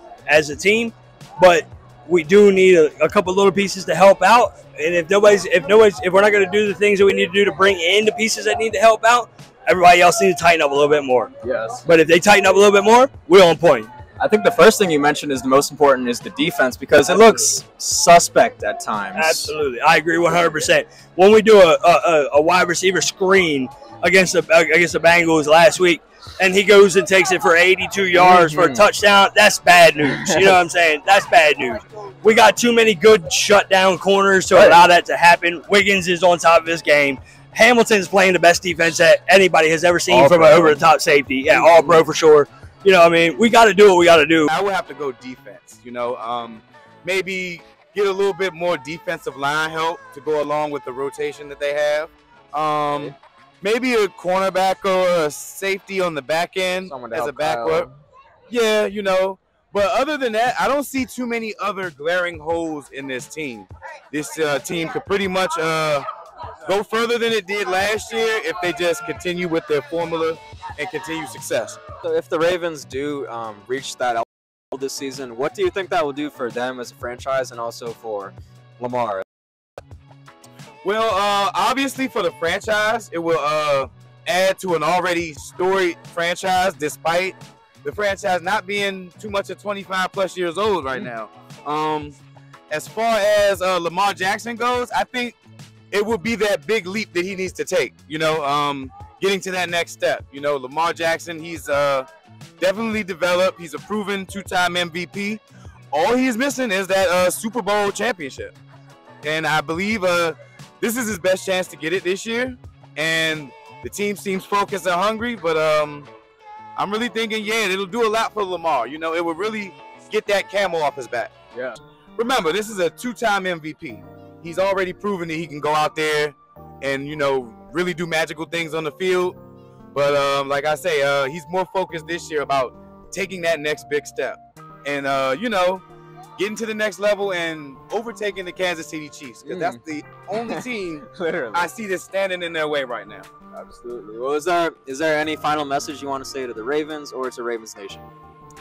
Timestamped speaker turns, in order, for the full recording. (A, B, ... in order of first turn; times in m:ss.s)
0:00.3-0:11.3 A
0:11.4-0:11.8 B
0:11.8-0:13.9 A
0:14.2-0:19.5 B
0:19.2-0:44.5 A
0:28.1-0:28.8 B
0:34.5-0:34.8 B
0:40.1-0:40.8 B
0:41.5-0:42.0 B
0:44.5-0:57.9 C
0:56.8-0:58.0 B
0:58.5-1:06.0 C
1:06.6-1:11.8 C
1:12.0-1:19.2 B
1:20.8-1:32.2 C
1:32.7-1:35.4 C
1:35.9-1:42.1 C
1:42.6-1:45.4 C
1:45.9-1:48.5 C
1:49.2-1:56.1 C
1:56.8-2:01.3 C
2:02.2-2:09.4 C
2:09.9-2:15.8 C
2:16.4-2:23.3 C
2:19.4-2:19.8 B
2:20.3-2:21.7 B
2:23.5-2:28.1 B